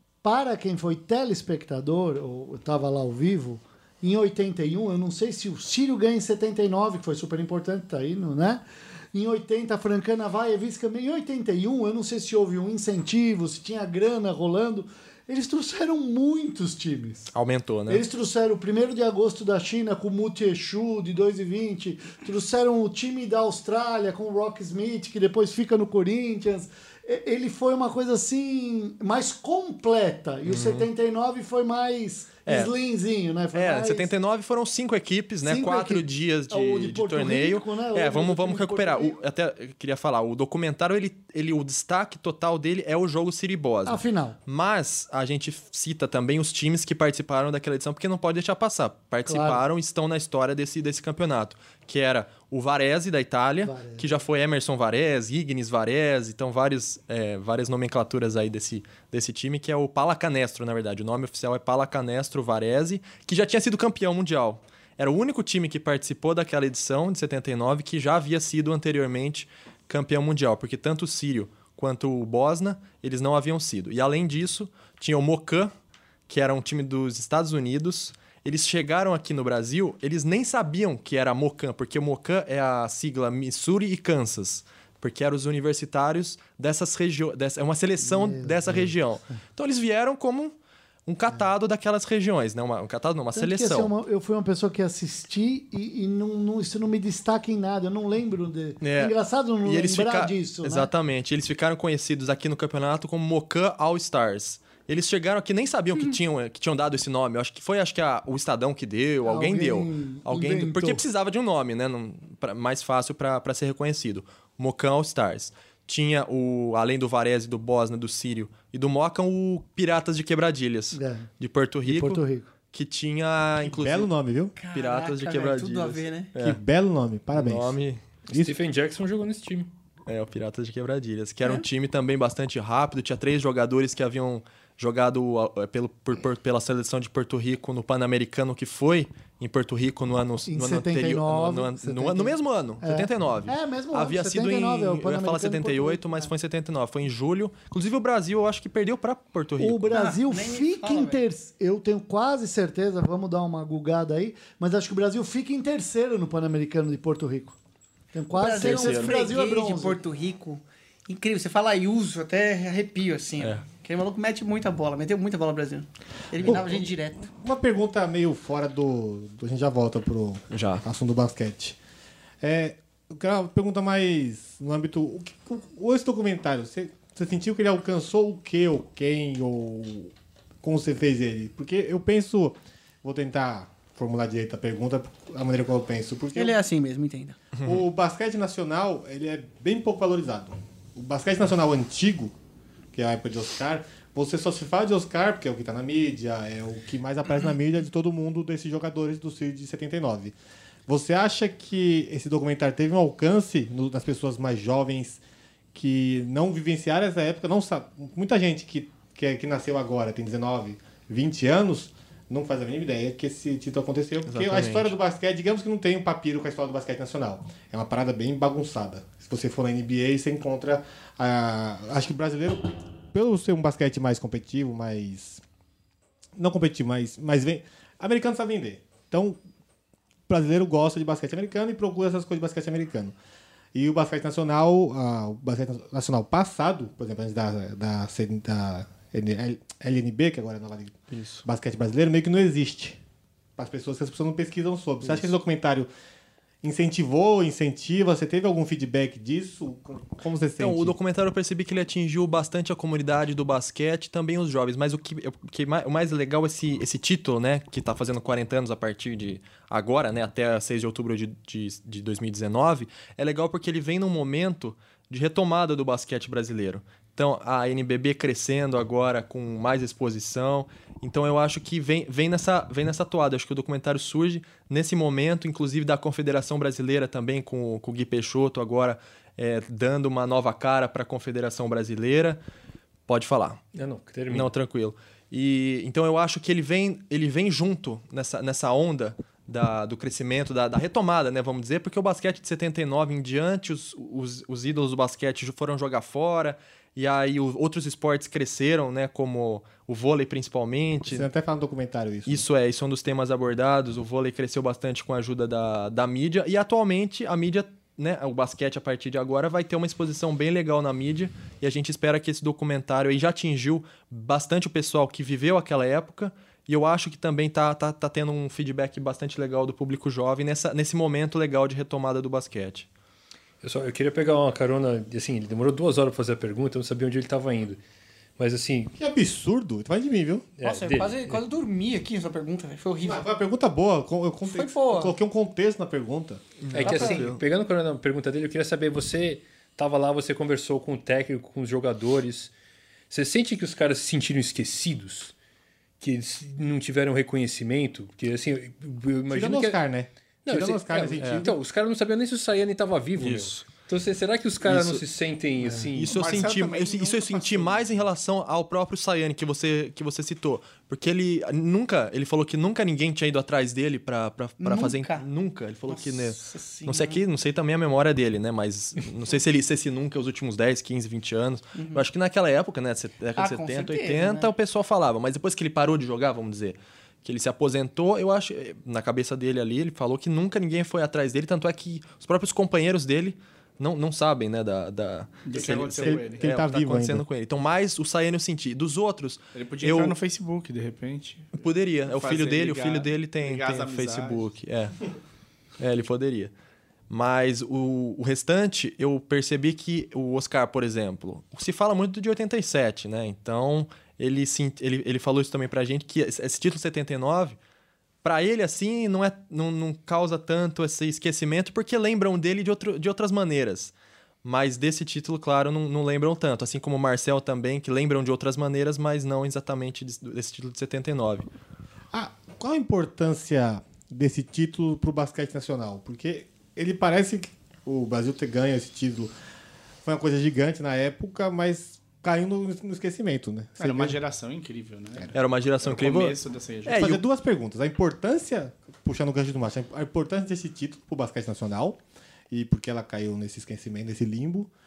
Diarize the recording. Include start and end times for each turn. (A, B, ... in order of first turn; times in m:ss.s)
0:00.2-0:17.3 A
0:17.3-0:18.0 B
0:17.9-0:34.1 A
0:30.5-0:30.9 B
0:32.4-0:32.7 B
0:33.5-1:15.7 B
0:35.4-0:39.1 A
0:43.8-0:44.4 A
0:49.2-0:49.6 A
0:53.6-0:54.1 A
1:16.3-1:30.5 B
1:28.0-1:29.3 A
1:31.0-1:33.9 B
1:33.3-1:40.9 A
1:38.8-2:04.1 B
1:49.2-1:51.0 A
2:00.9-2:01.3 A
2:01.8-2:02.5 A
2:03.6-2:04.5 C
2:04.6-2:06.3 D
2:04.7-2:06.6 B
2:06.4-2:08.6 C
2:07.3-2:08.0 B
2:08.3-2:09.7 E
2:10.0-2:30.0 B
2:20.5-2:26.3 A
2:29.6-2:37.6 A
2:29.9-2:31.2 D
2:38.1-2:40.0 A
2:38.3-2:47.3 D
2:38.6-2:39.1 B
2:46.4-2:51.8 C
2:50.5-2:50.8 B
2:52.4-3:00.1 C
3:00.6-3:06.6 C
3:06.3-3:07.4 D
3:07.6-3:12.3 C
3:12.9-3:20.4 C
3:20.9-3:25.2 C
3:25.7-3:45.4 C
3:34.2-3:34.9 B
3:46.4-3:49.4 C
3:50.3-3:53.2 C
3:53.7-4:03.0 C
4:01.1-4:01.4 B
4:03.6-4:05.9 C
4:05.0-4:05.3 B
4:06.6-4:11.0 C
4:10.6-4:42.4 B
4:43.1-4:43.6 B
4:43.7-4:44.5 E
4:44.3-5:01.3 B
5:01.0-5:02.4 C
5:02.2-5:22.9 B
5:23.6-5:27.8 E
5:28.4-5:28.9 E
5:29.0-5:30.5 C
5:30.6-5:31.4 E
5:30.6-5:33.2 D
5:33.0-5:36.4 C
5:34.4-5:35.1 D
5:36.6-5:37.4 B
5:36.7-5:42.5 E
5:36.8-5:37.2 D
5:43.1-5:45.3 E
5:46.0-5:49.8 E
5:49.3-5:51.6 C
5:50.4-5:56.2 E
5:51.2-5:51.5 B
5:53.2-5:53.6 B
5:54.6-5:55.0 B
5:55.9-6:30.2 B
5:56.1-5:57.9 F
6:04.6-6:05.2 D
6:05.9-6:07.2 D
6:11.7-6:12.0 D
6:13.4-6:14.5 D
6:25.4-6:26.4 F
6:26.0-6:27.2 C
6:29.5-6:34.5 F
6:31.6-6:34.9 B
6:35.8-6:36.5 B
6:37.1-6:47.6 B
6:48.2-7:01.5 B
7:02.1-7:09.3 C
7:10.0-7:14.2 C
7:13.8-7:17.0 F
7:15.3-7:17.2 B
7:16.9-7:22.0 C
7:22.5-7:24.7 C